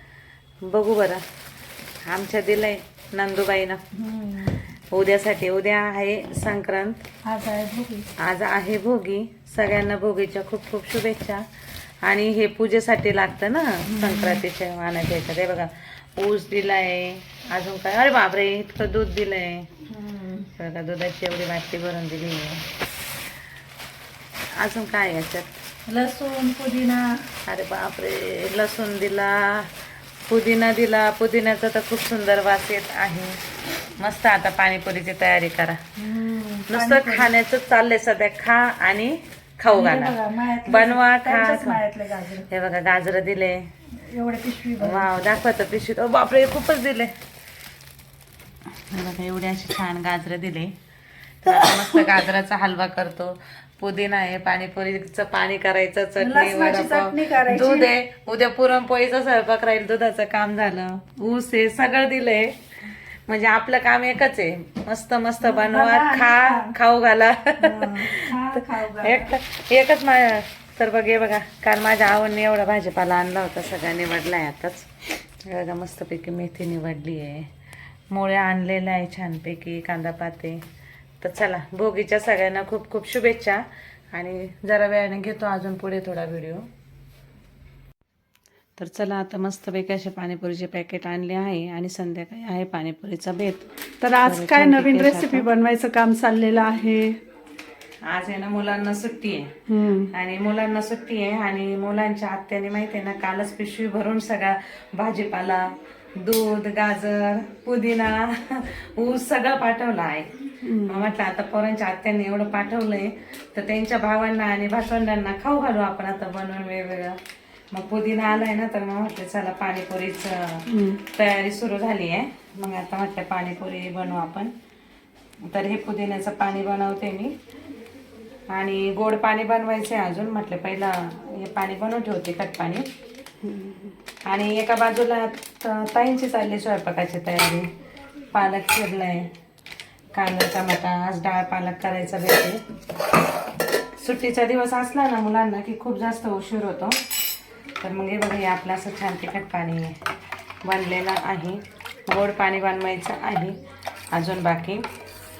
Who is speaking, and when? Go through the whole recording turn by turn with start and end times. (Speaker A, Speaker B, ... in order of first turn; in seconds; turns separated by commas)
Speaker A: 0.6-1.2, Speaker A: 2.1-3.8, Speaker B: 3.9-4.6, Speaker A: 4.9-7.0, Speaker B: 7.2-8.1, Speaker A: 8.2-11.4, Speaker A: 12.0-19.7, Speaker B: 13.9-14.4, Speaker B: 19.9-20.5, Speaker A: 20.6-22.7, Speaker A: 24.6-25.6, Speaker B: 25.9-27.2, Speaker A: 27.5-29.7, Speaker A: 30.3-33.4, Speaker A: 34.0-35.8, Speaker B: 36.0-37.3, Speaker A: 36.7-41.8, Speaker B: 39.7-42.5, Speaker A: 42.5-43.7, Speaker B: 44.0-45.1, Speaker A: 44.8-47.1, Speaker A: 48.9-50.8, Speaker A: 51.4-62.6, Speaker B: 51.5-52.1, Speaker B: 56.2-57.9, Speaker A: 63.3-77.5, Speaker B: 65.4-66.8, Speaker B: 67.6-69.3, Speaker A: 78.1-80.7, Speaker A: 81.2-86.7, Speaker A: 88.8-95.5, Speaker B: 94.0-97.2, Speaker A: 98.1-99.5, Speaker B: 99.7-100.1, Speaker A: 100.1-117.2, Speaker B: 110.6-111.1, Speaker A: 117.7-124.5, Speaker B: 120.7-121.0, Speaker A: 125.5-127.3, Speaker A: 128.5-132.9, Speaker B: 133.4-133.9, Speaker A: 134.2-137.7, Speaker A: 138.3-139.3, Speaker A: 140.1-142.6, Speaker A: 144.0-147.0, Speaker A: 147.8-150.0, Speaker A: 150.6-153.6, Speaker A: 154.1-154.8